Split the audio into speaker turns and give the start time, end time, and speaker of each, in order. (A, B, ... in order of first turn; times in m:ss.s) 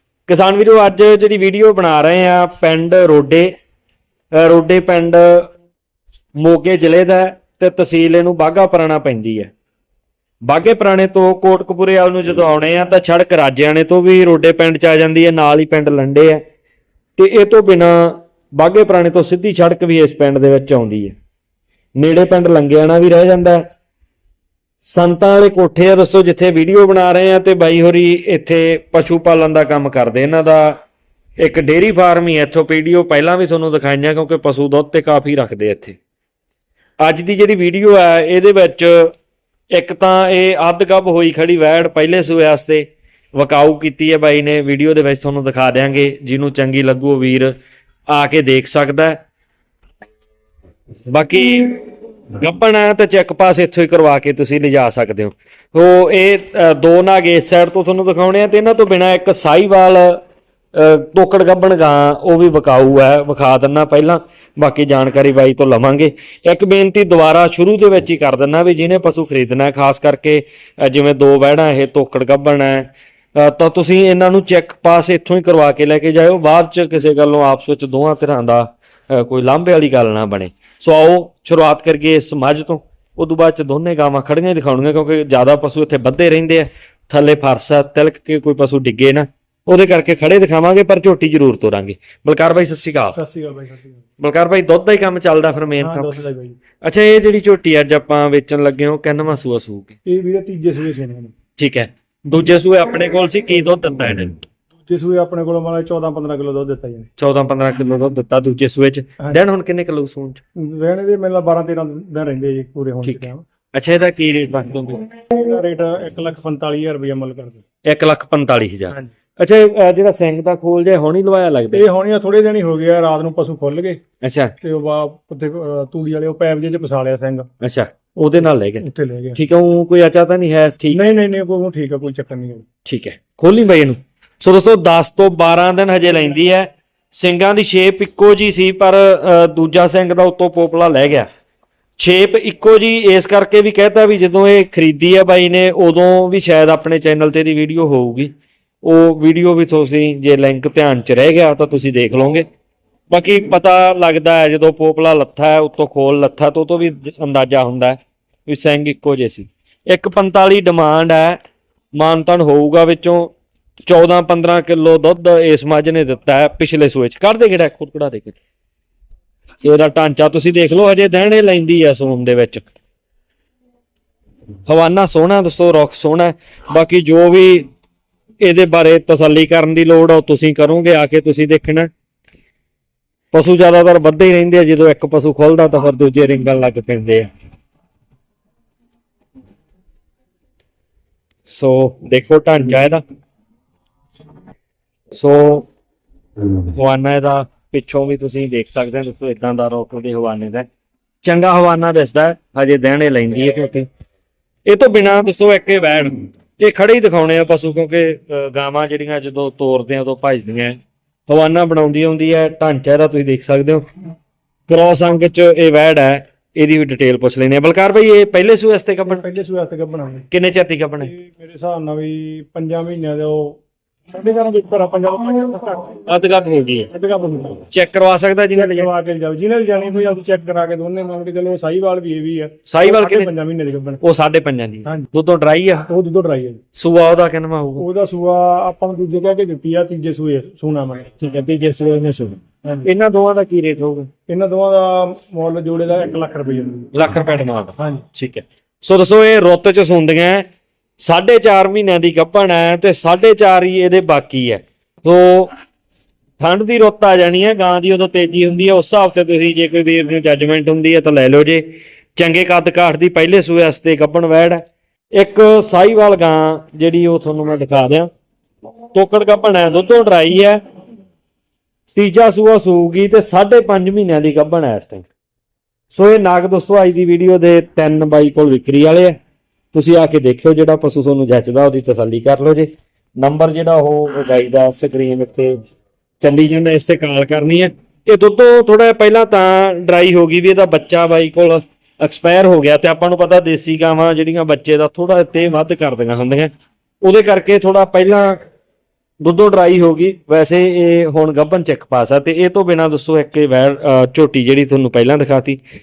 0:00.3-0:03.5 A
0:04.3-0:05.5 A
0:06.4-0:09.5 A
0:10.4-0:16.4 A
0:17.2-0:21.2 A
0:22.0-0:23.7 A
0:24.8-0:30.8 A
0:31.4-0:36.0 A
0:37.0-0:39.1 A
0:39.7-0:47.6 A
0:48.1-0:49.2 A
0:51.1-1:00.2 A
1:00.7-1:33.2 A
1:33.1-1:34.0 B
1:34.2-1:36.1 A
1:35.8-1:36.6 B
1:36.8-1:39.9 A
1:40.1-1:41.3 B
1:41.6-1:44.4 A
1:44.9-1:47.1 B
1:47.2-1:50.4 A
1:50.6-1:53.4 B
1:53.0-1:55.0 A
1:55.3-1:57.6 B
1:57.9-2:01.8 A
2:01.7-2:04.0 B
2:04.2-2:04.6 A
2:04.6-2:07.5 B
2:07.6-2:11.0 A
2:08.8-2:09.4 B
2:10.9-2:12.6 B
2:12.8-2:21.3 A
2:22.0-2:28.3 A
2:28.8-2:32.4 A
2:33.1-2:41.4 A
2:41.9-2:43.3 A
2:43.9-2:48.4 A
2:49.6-2:52.7 A
2:54.7-2:57.7 A
2:58.4-3:01.9 A
3:03.3-3:07.3 A
3:11.5-3:13.0 A
3:15.1-3:15.7 A
3:16.8-3:20.7 A
3:21.2-3:23.9 A
3:24.7-3:33.8 A
3:34.7-3:39.2 A
3:39.0-3:40.3 B
3:40.3-3:41.1 A
3:41.0-3:43.6 B
3:44.1-3:46.0 B
3:46.1-3:46.9 A
3:46.9-3:47.7 B
3:47.7-3:48.9 A
3:48.5-3:54.0 B
3:52.7-3:53.3 A
3:54.0-3:55.9 A
3:55.9-3:56.6 B
3:56.8-3:57.8 A
3:57.8-4:01.1 B
4:01.2-4:04.1 A
4:04.3-4:06.9 B
4:06.9-4:10.5 A
4:07.8-4:08.0 B
4:11.0-4:15.5 A
4:16.4-4:28.1 A
4:28.9-4:30.6 A
4:32.0-4:35.1 A
4:35.9-4:39.2 A
4:39.7-4:45.6 A
4:46.2-4:56.5 A
4:57.0-4:58.4 A
4:59.2-5:05.6 A